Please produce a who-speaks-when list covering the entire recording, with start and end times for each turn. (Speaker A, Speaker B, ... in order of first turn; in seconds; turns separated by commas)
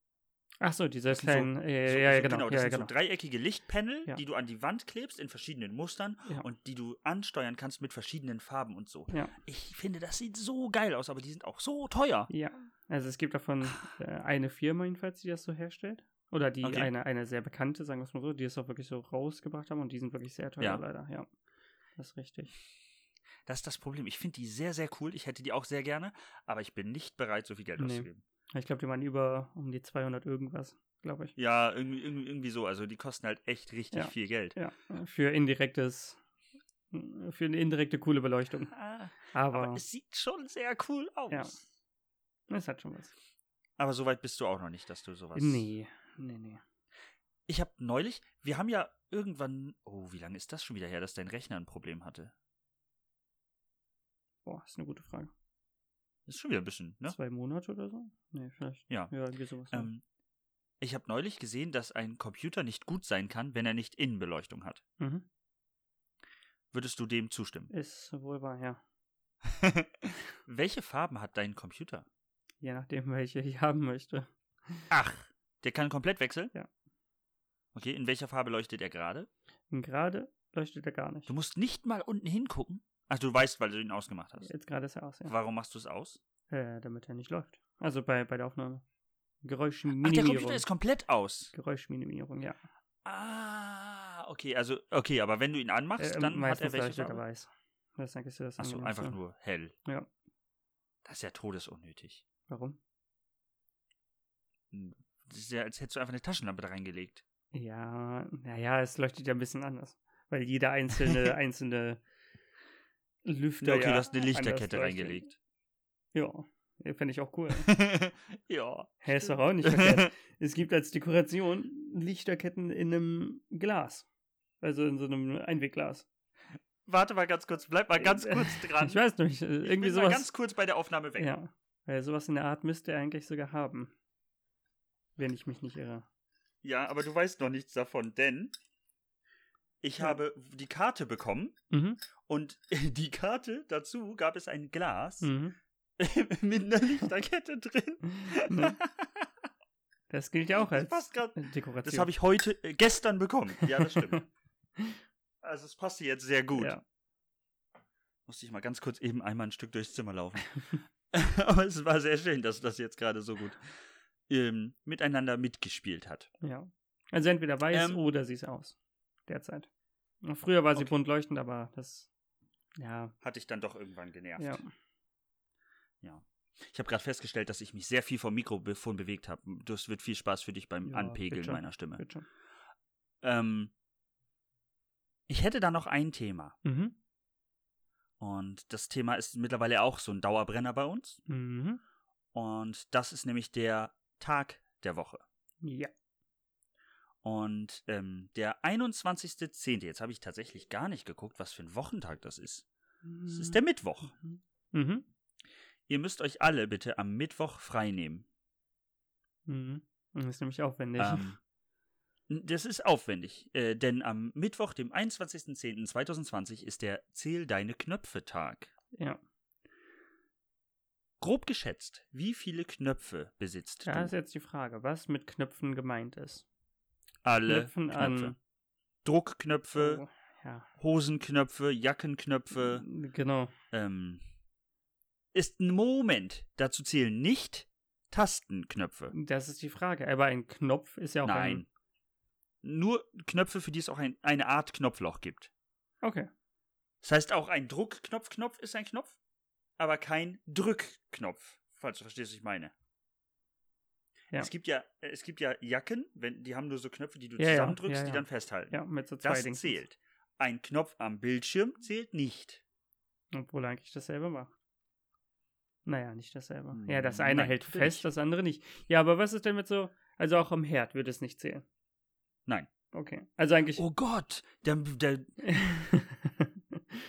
Speaker A: 0.6-2.9, Speaker B: 1.1-12.3, Speaker A: 12.3-21.3, Speaker B: 16.6-16.9, Speaker A: 22.0-22.5, Speaker B: 23.4-28.2, Speaker A: 27.8-31.3, Speaker B: 31.4-34.6, Speaker A: 33.9-36.2, Speaker A: 36.9-38.7, Speaker B: 38.7-41.6, Speaker A: 39.3-39.8, Speaker A: 42.5-43.1, Speaker B: 43.8-45.6, Speaker A: 45.3-46.6, Speaker B: 47.5-52.3, Speaker A: 54.4-55.3, Speaker B: 56.3-57.1, Speaker A: 57.0-59.9, Speaker B: 59.7-60.0, Speaker B: 60.8-64.8, Speaker A: 65.0-65.2, Speaker B: 66.7-67.7, Speaker A: 67.7-68.8, Speaker B: 69.4-72.1, Speaker A: 72.6-74.9, Speaker B: 74.9-76.5, Speaker B: 77.7-79.3, Speaker A: 79.7-81.3, Speaker B: 81.3-84.5, Speaker A: 84.4-85.3, Speaker B: 85.2-86.2, Speaker A: 86.5-88.8, Speaker A: 89.4-90.6, Speaker B: 90.0-91.5, Speaker A: 91.5-92.6, Speaker B: 93.0-97.2, Speaker A: 96.0-99.2, Speaker B: 98.6-99.7, Speaker B: 101.0-102.2, Speaker A: 102.5-102.8, Speaker B: 104.7-107.2, Speaker A: 107.5-112.0, Speaker A: 113.2-115.3, Speaker B: 113.6-115.3, Speaker A: 116.1-117.7, Speaker B: 117.6-120.1, Speaker A: 119.0-124.0, Speaker A: 124.6-126.1, Speaker B: 126.8-129.0, Speaker A: 128.0-130.3, Speaker B: 129.6-131.3, Speaker A: 131.2-133.9, Speaker A: 135.2-136.1, Speaker B: 136.6-138.5, Speaker B: 139.8-141.5, Speaker A: 141.7-142.0, Speaker B: 142.2-145.3, Speaker A: 145.2-145.6, Speaker B: 146.0-149.3, Speaker A: 148.0-148.8, Speaker A: 150.1-152.1, Speaker B: 150.6-154.2, Speaker A: 153.8-154.2, Speaker B: 155.4-156.8, Speaker A: 156.5-156.8, Speaker B: 158.2-160.5, Speaker B: 161.1-163.6, Speaker B: 164.3-166.3, Speaker A: 166.4-169.7, Speaker B: 167.7-168.0, Speaker A: 170.2-172.1, Speaker A: 172.8-173.1, Speaker B: 173.2-174.6, Speaker A: 174.4-174.7, Speaker B: 176.0-182.0, Speaker A: 180.8-182.2, Speaker B: 183.2-183.7, Speaker B: 185.3-186.6, Speaker A: 186.6-186.9, Speaker B: 188.2-191.2, Speaker A: 191.3-191.8, Speaker B: 192.3-195.2, Speaker A: 195.6-195.9, Speaker B: 197.2-202.6, Speaker A: 203.0-205.1, Speaker B: 203.3-204.1, Speaker B: 205.9-208.2, Speaker A: 209.5-211.3, Speaker B: 211.0-211.4, Speaker B: 212.3-218.7, Speaker A: 218.9-219.2, Speaker B: 221.2-224.1, Speaker A: 223.8-226.4, Speaker B: 227.2-228.3, Speaker A: 227.5-228.3, Speaker B: 229.0-230.0, Speaker A: 229.7-230.7, Speaker B: 230.8-232.8, Speaker A: 232.5-233.5, Speaker B: 233.7-234.2, Speaker B: 235.3-239.1, Speaker A: 239.1-241.6, Speaker B: 241.2-241.7, Speaker B: 242.6-245.5, Speaker A: 246.0-246.3, Speaker B: 247.0-249.2, Speaker B: 249.8-252.7, Speaker B: 254.3-262.6, Speaker A: 257.4-259.8, Speaker A: 263.3-264.5, Speaker A: 265.9-271.6, Speaker B: 266.7-268.1, Speaker A: 272.9-273.8, Speaker B: 273.8-275.8, Speaker A: 275.4-277.0